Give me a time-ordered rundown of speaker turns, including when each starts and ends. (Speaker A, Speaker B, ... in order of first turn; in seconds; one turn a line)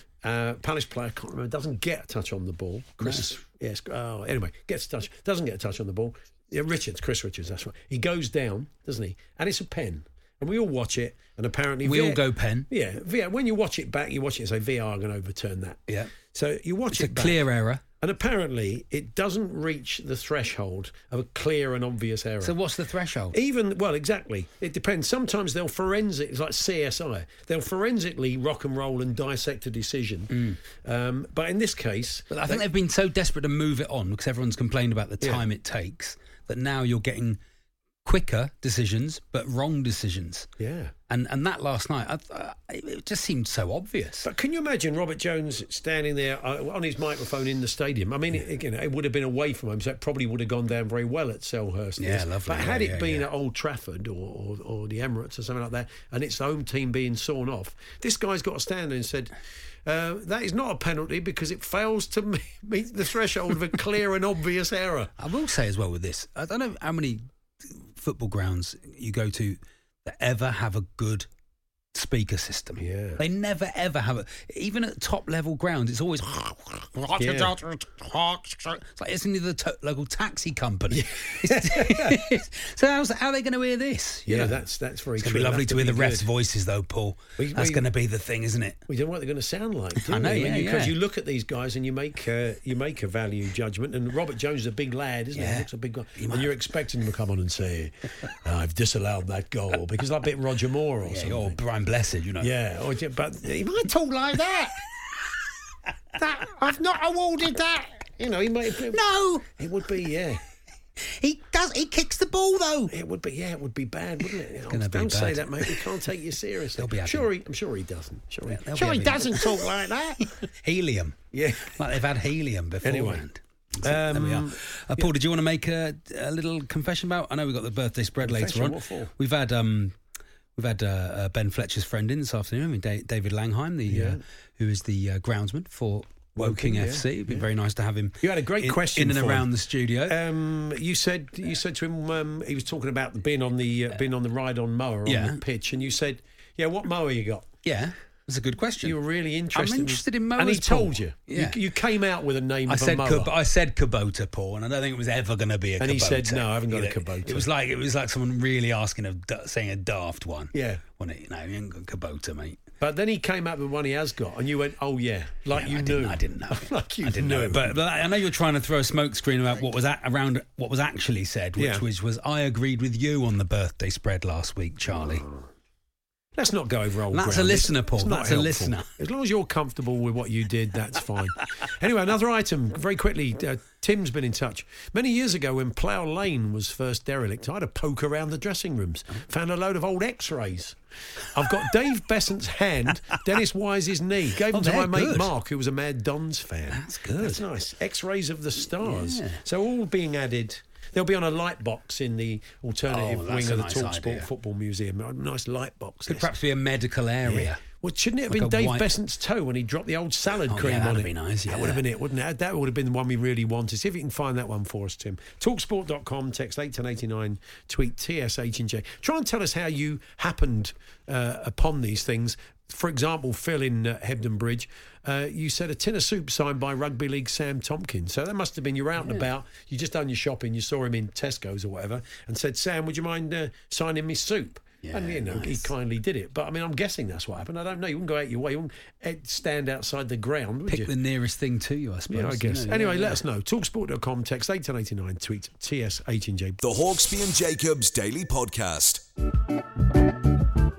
Speaker A: 0.2-17.4
Speaker B: 3.0-3.4
Speaker B: 11.8-12.7
Speaker B: 16.9-17.8
Speaker A: 18.0-22.6
Speaker B: 22.4-23.4
Speaker A: 23.3-32.6
Speaker B: 30.3-30.6
Speaker B: 32.3-37.4
Speaker B: 38.0-40.5
Speaker A: 40.6-40.9
Speaker B: 41.1-44.3
Speaker A: 44.2-59.3
Speaker B: 52.0-53.3
Speaker A: 59.9-65.1
Speaker B: 65.2-71.3
Speaker B: 71.9-84.6
Speaker A: 72.8-73.2
Speaker A: 77.2-77.5
Speaker A: 80.9-82.2
Speaker A: 84.3-86.3
Speaker B: 85.2-88.8
Speaker A: 87.4-87.9
Speaker A: 88.9-101.6
Speaker B: 90.0-91.0
Speaker B: 95.3-96.5
Speaker B: 101.1-102.5
Speaker A: 102.4-104.8
Speaker A: 106.2-110.4
Speaker B: 108.9-109.5
Speaker B: 111.2-112.9
Speaker A: 112.9-120.3
Speaker B: 114.7-115.9
Speaker B: 116.8-117.3
Speaker B: 118.5-119.7
Speaker B: 120.2-130.0
Speaker A: 121.3-121.8
Speaker A: 122.8-123.2
Speaker A: 123.8-125.1
Speaker A: 128.2-129.1
Speaker B: 130.6-140.2
Speaker A: 133.9-134.2
Speaker A: 136.4-137.5
Speaker A: 138.2-139.5
Speaker A: 140.1-147.5
Speaker B: 145.1-145.4
Speaker B: 147.7-149.0
Speaker A: 148.8-153.3
Speaker B: 149.5-151.6
Speaker B: 152.7-162.6
Speaker A: 155.8-157.5
Speaker A: 160.5-160.8
Speaker A: 162.8-167.8
Speaker B: 165.5-175.3
Speaker A: 171.6-171.8
Speaker A: 175.0-175.4
Speaker A: 176.3-190.8
Speaker B: 177.1-178.9
Speaker A: 191.3-206.3
Speaker B: 194.5-195.3
Speaker B: 196.7-197.4
Speaker B: 198.8-199.4
Speaker B: 202.9-204.3
Speaker B: 206.1-207.6
Speaker A: 207.2-240.9
Speaker B: 208.3-208.9
Speaker B: 210.5-211.8
Speaker B: 234.8-235.7
Speaker B: 240.7-243.2
Speaker A: 242.1-246.6
Speaker C: 246.6-249.0